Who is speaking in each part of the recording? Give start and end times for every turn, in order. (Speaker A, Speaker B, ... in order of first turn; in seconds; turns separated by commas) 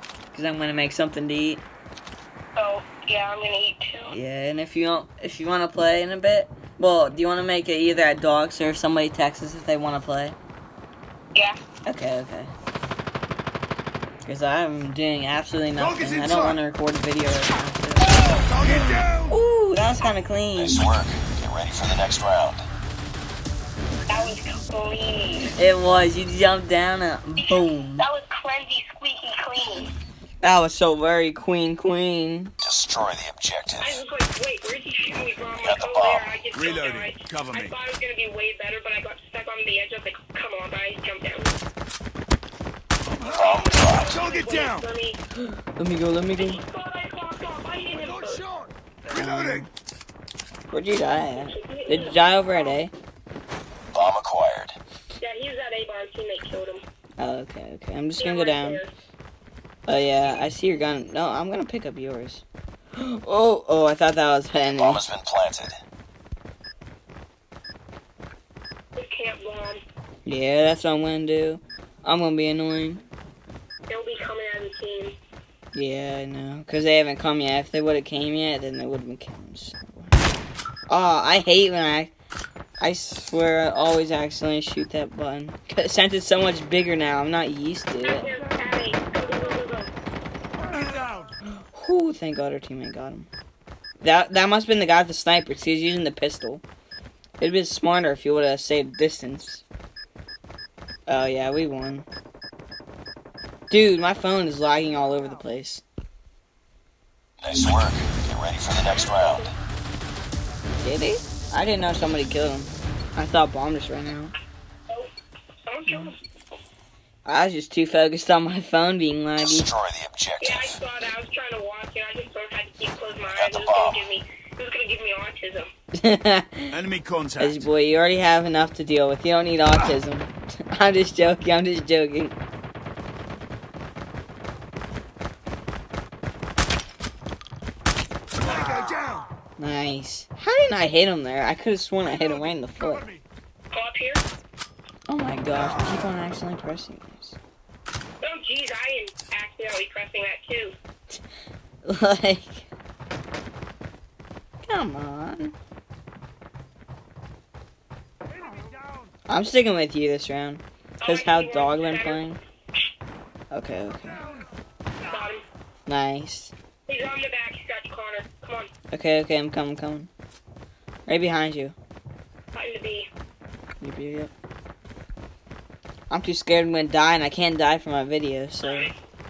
Speaker A: 0.3-1.6, Speaker B: 2.5-4.2, Speaker A: 4.1-10.4, Speaker B: 11.3-11.6, Speaker A: 11.8-12.5, Speaker A: 14.2-20.8, Speaker C: 15.8-16.6, Speaker B: 18.1-18.4, Speaker C: 18.5-19.3, Speaker D: 20.6-22.7, Speaker B: 24.1-25.6, Speaker A: 25.5-28.1, Speaker B: 27.4-29.9, Speaker A: 30.4-32.5, Speaker D: 32.6-34.0, Speaker B: 33.8-41.6, Speaker D: 35.6-36.3, Speaker C: 36.5-37.8, Speaker C: 43.1-43.4, Speaker D: 43.3-44.2, Speaker B: 43.3-45.2, Speaker C: 44.1-44.8, Speaker A: 45.7-46.6, Speaker B: 46.4-48.5, Speaker C: 48.0-49.6, Speaker A: 49.1-49.7, Speaker A: 50.7-52.9, Speaker B: 51.3-52.6, Speaker D: 53.9-54.8, Speaker B: 55.2-56.8, Speaker A: 57.2-58.8, Speaker B: 58.2-58.9, Speaker A: 59.9-62.4, Speaker A: 63.0-65.0, Speaker D: 64.8-65.8, Speaker B: 69.0-69.8, Speaker A: 70.2-73.0, Speaker B: 73.9-75.2, Speaker A: 75.7-80.2, Speaker A: 80.9-82.1, Speaker A: 82.8-88.3, Speaker B: 88.0-89.9, Speaker A: 91.7-93.3, Speaker A: 94.0-96.6, Speaker A: 97.4-99.6, Speaker A: 101.1-102.1, Speaker A: 103.7-105.8, Speaker D: 107.4-109.5, Speaker B: 108.8-109.5, Speaker A: 110.8-114.3, Speaker B: 115.7-116.2, Speaker A: 115.9-116.1, Speaker A: 117.3-119.7, Speaker D: 119.4-120.8, Speaker B: 120.4-125.7, Speaker D: 123.3-124.0, Speaker A: 126.0-126.7, Speaker C: 126.7-127.7, Speaker A: 127.4-132.3, Speaker C: 138.4-139.2, Speaker A: 139.6-143.1, Speaker C: 142.8-143.2, Speaker B: 143.7-144.2, Speaker A: 145.1-147.4, Speaker B: 148.2-150.8, Speaker A: 151.8-152.7, Speaker A: 154.6-155.6, Speaker A: 159.3-162.4, Speaker B: 161.0-162.3, Speaker A: 163.5-164.2, Speaker B: 165.1-165.4, Speaker A: 165.9-166.5, Speaker B: 166.9-168.7, Speaker A: 168.9-170.1, Speaker A: 171.1-171.8, Speaker B: 172.5-173.1, Speaker A: 173.8-174.3, Speaker A: 176.1-178.9, Speaker B: 178.6-178.9